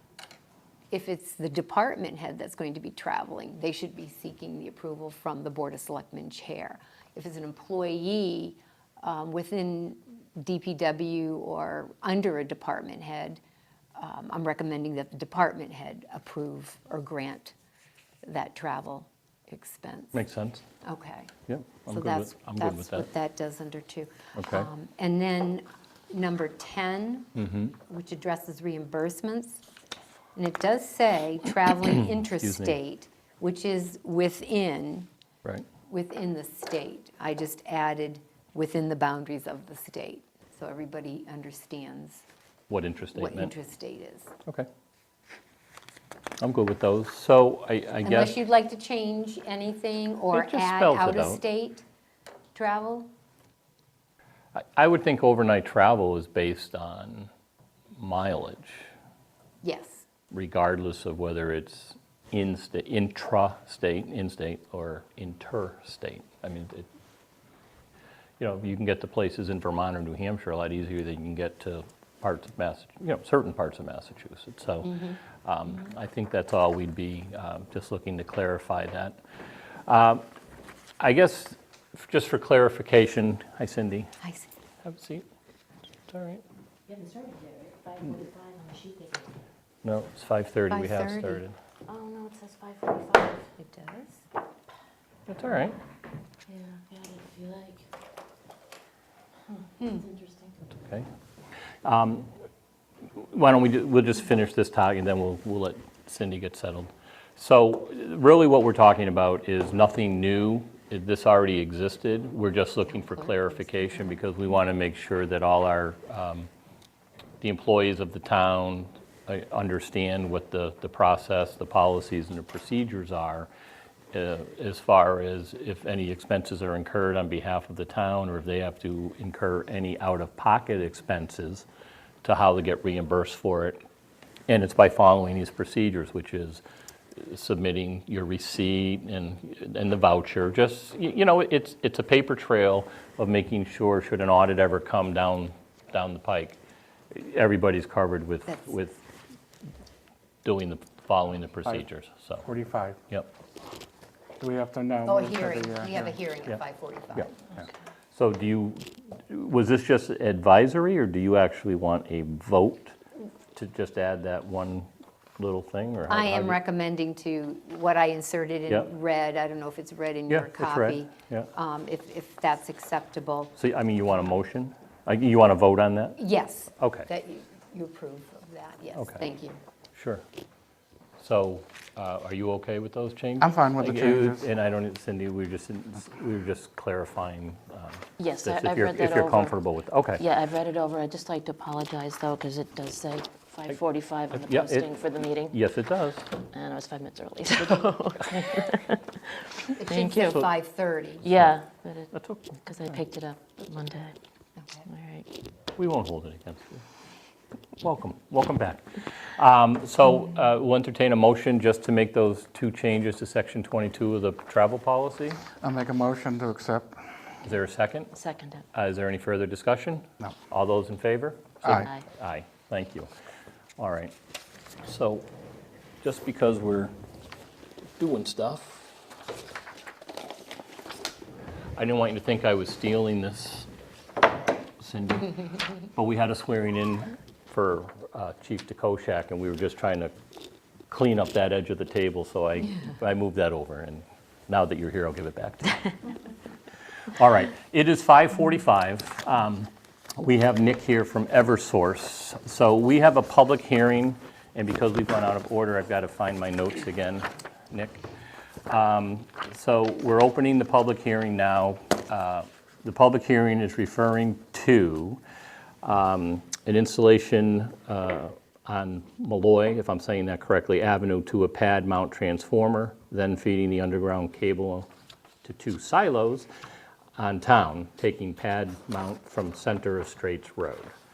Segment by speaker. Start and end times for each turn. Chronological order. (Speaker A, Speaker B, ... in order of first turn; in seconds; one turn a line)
Speaker A: 0.9-13.4
Speaker A: 14.0-17.5
Speaker A: 18.2-20.2
Speaker B: 20.1-20.6
Speaker A: 20.8-21.3
Speaker B: 21.5-23.1
Speaker A: 21.9-29.6
Speaker B: 24.4-24.7
Speaker B: 27.4-27.7
Speaker A: 30.4-35.1
Speaker B: 32.3-32.8
Speaker A: 35.9-42.2
Speaker B: 42.7-43.5
Speaker A: 43.1-44.3
Speaker B: 46.4-48.4
Speaker A: 48.0-51.8
Speaker B: 50.3-51.4
Speaker A: 52.5-53.1
Speaker B: 54.5-57.3
Speaker B: 58.0-58.9
Speaker A: 59.6-60.0
Speaker B: 60.3-66.9
Speaker B: 68.4-79.2
Speaker B: 79.9-80.3
Speaker B: 81.0-84.1
Speaker A: 84.2-84.5
Speaker B: 84.8-85.2
Speaker B: 86.1-86.4
Speaker C: 86.9-89.3
Speaker B: 89.8-91.6
Speaker A: 90.7-91.4
Speaker C: 91.9-93.5
Speaker A: 93.6-94.2
Speaker B: 95.3-95.8
Speaker C: 96.5-97.9
Speaker C: 99.5-100.7
Speaker B: 100.8-101.1
Speaker B: 101.8-102.3
Speaker B: 103.1-116.5
Speaker A: 113.0-113.3
Speaker B: 117.4-123.5
Speaker B: 124.1-131.7
Speaker B: 132.2-133.8
Speaker B: 134.5-136.6
Speaker B: 137.2-146.6
Speaker B: 147.1-149.0
Speaker B: 150.4-152.5
Speaker D: 152.5-153.0
Speaker D: 154.4-156.1
Speaker A: 155.1-157.4
Speaker B: 158.1-163.0
Speaker B: 163.5-166.6
Speaker A: 166.1-173.5
Speaker B: 170.3-171.5
Speaker B: 173.6-176.2
Speaker A: 176.2-179.6
Speaker B: 176.8-177.1
Speaker B: 179.9-180.2
Speaker B: 181.2-190.2
Speaker D: 183.4-184.4
Speaker C: 188.2-189.5
Speaker C: 190.2-195.6
Speaker B: 194.3-194.9
Speaker B: 195.5-196.3
Speaker C: 196.5-200.4
Speaker A: 199.7-201.3
Speaker C: 201.2-202.1
Speaker B: 202.1-202.6
Speaker C: 202.6-204.2
Speaker A: 204.6-204.8
Speaker C: 204.9-205.3
Speaker B: 205.8-206.8
Speaker B: 207.8-215.5
Speaker D: 215.5-217.1
Speaker B: 217.4-218.1
Speaker C: 218.1-218.6
Speaker B: 218.7-223.1
Speaker D: 221.6-221.9
Speaker C: 221.7-222.0
Speaker B: 223.8-224.1
Speaker B: 224.8-225.3
Speaker B: 226.0-226.9
Speaker B: 228.0-228.9
Speaker B: 231.8-233.7
Speaker B: 234.8-240.1
Speaker B: 240.9-246.0
Speaker B: 247.1-258.0
Speaker B: 258.7-265.2
Speaker B: 265.8-274.9
Speaker B: 275.4-276.5
Speaker B: 277.1-280.9